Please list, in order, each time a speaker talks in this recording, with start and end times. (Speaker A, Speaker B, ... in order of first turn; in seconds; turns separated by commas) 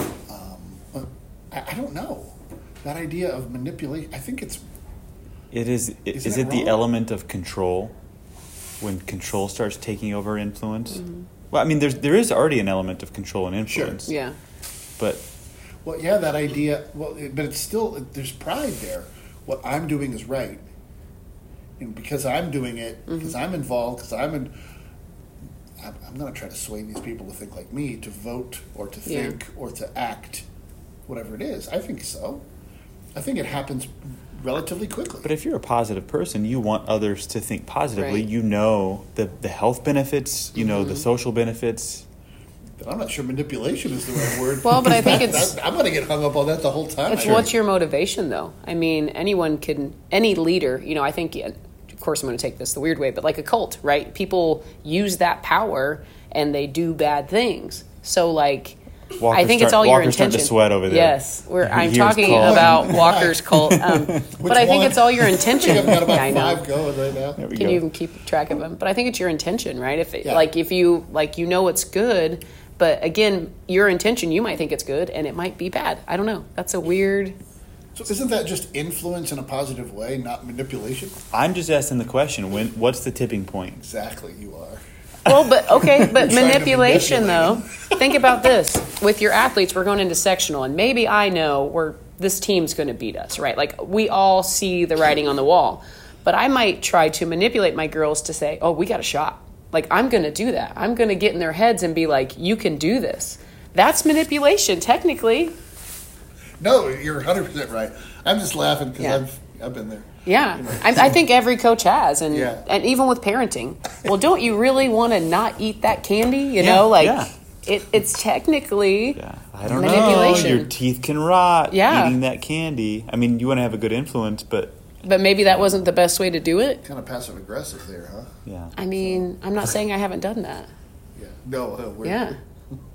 Speaker A: 0.3-4.6, Speaker B: 5.5-7.9, Speaker A: 6.1-6.8, Speaker B: 8.8-14.1, Speaker A: 13.7-14.1, Speaker C: 14.1-14.3, Speaker B: 15.0-15.2, Speaker A: 15.8-20.6, Speaker A: 21.8-24.5, Speaker C: 23.1-23.3, Speaker A: 25.8-30.4, Speaker C: 29.1-29.4, Speaker A: 31.1-32.4, Speaker A: 33.1-35.3, Speaker B: 35.2-42.0, Speaker C: 38.0-38.2, Speaker C: 40.6-41.0, Speaker A: 42.8-47.5, Speaker C: 44.6-45.5, Speaker C: 47.1-58.8, Speaker B: 47.2-47.5, Speaker B: 59.2-64.3, Speaker C: 59.3-66.6, Speaker A: 62.3-63.4, Speaker A: 64.2-67.5, Speaker B: 67.4-67.8, Speaker C: 67.5-77.3, Speaker A: 78.0-81.2, Speaker B: 81.3-83.8, Speaker A: 83.8-88.3, Speaker C: 85.2-105.5, Speaker A: 106.6-111.2, Speaker C: 110.2-119.2, Speaker A: 112.3-112.6, Speaker B: 116.6-117.3, Speaker B: 119.1-124.8, Speaker A: 119.7-120.6, Speaker C: 119.7-120.7, Speaker C: 121.7-122.2, Speaker C: 125.0-126.8, Speaker B: 125.5-125.8, Speaker A: 126.8-128.3, Speaker B: 128.4-128.7, Speaker C: 128.8-130.7, Speaker A: 128.9-129.3, Speaker A: 131.2-132.2, Speaker C: 132.0-132.3